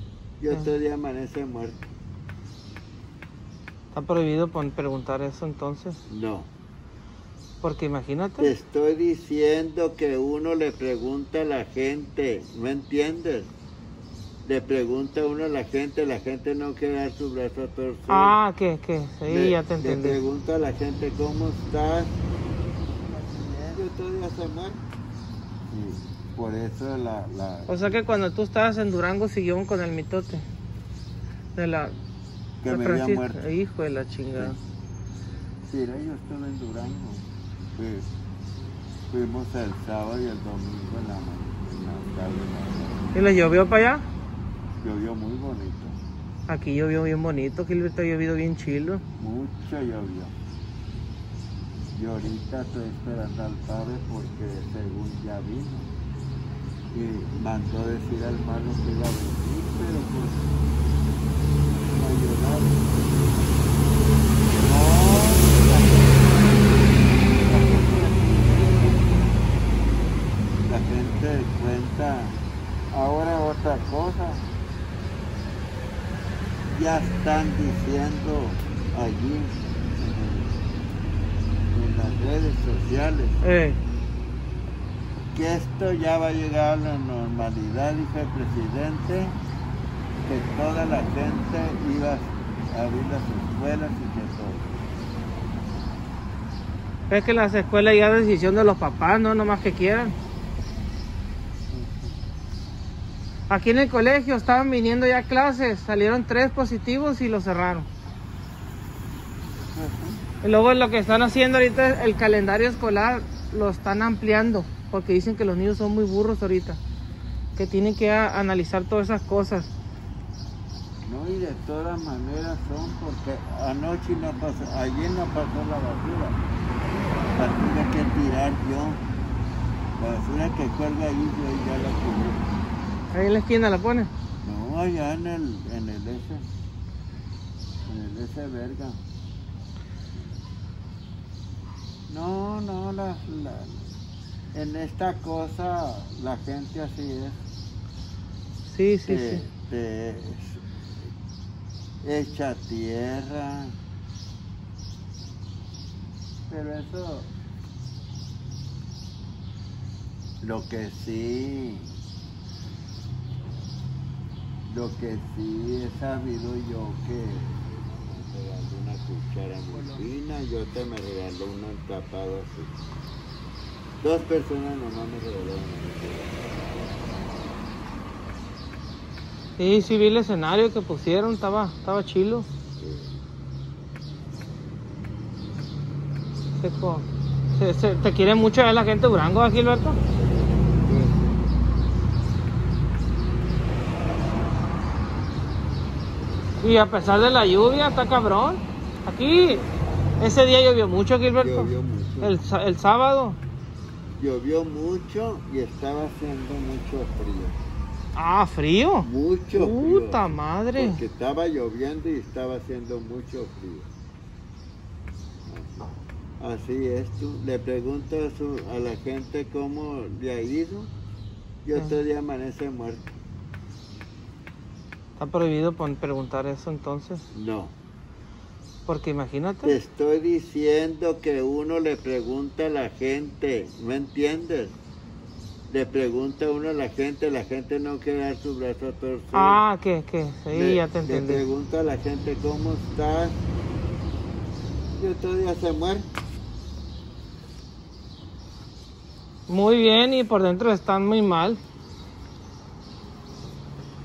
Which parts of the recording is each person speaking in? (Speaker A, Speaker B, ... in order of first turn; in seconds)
Speaker A: 0.4-1.9, 6.0-6.5, 8.4-13.5, 14.4-18.4, 19.2-22.2, 23.1-24.8, 25.7-28.0, 32.6-33.5, 35.6-38.1, 39.1-43.1, 44.8-46.0, 49.1-50.3, 51.9-55.9, 56.9-60.5, 61.7-63.4, 64.5-69.3, 70.7-72.3, 72.9-74.5, 76.7-80.6, 81.7-83.4, 85.3-89.3, 90.2-94.8, 101.7-102.2, 109.6-110.2, 121.0-126.4, 127.3-129.0, 130.0-132.4, 134.4-136.5, 137.8-139.0, 142.1-143.9, 144.5-147.4, 149.1-150.6, 152.0-153.8, 156.5-157.3, 160.4-162.0, 164.7-172.7, 174.0-176.5, 182.8-183.2, 190.4-191.5, 201.4-202.4, 204.2-207.6, 209.0-213.9, 215.4-220.9, 221.6-223.1, 227.3-227.8, 229.6-234.8, 235.7-239.6, 240.5-243.4, 245.0-246.1
Speaker B: 3.9-6.0, 7.6-8.5, 18.1-20.2, 27.7-30.4, 31.5-31.9, 32.7-34.6, 43.1-44.0, 46.5-49.0, 83.4-83.8, 97.1-100.1, 103.5-107.9, 110.4-116.8, 117.5-119.7, 133.1-134.1, 148.6-149.4, 179.6-182.5, 186.6-190.0, 196.6-199.6, 200.2-201.7, 202.2-203.4, 208.2-211.0, 225.2-227.2, 228.8-229.8, 239.3-241.4, 249.5-251.6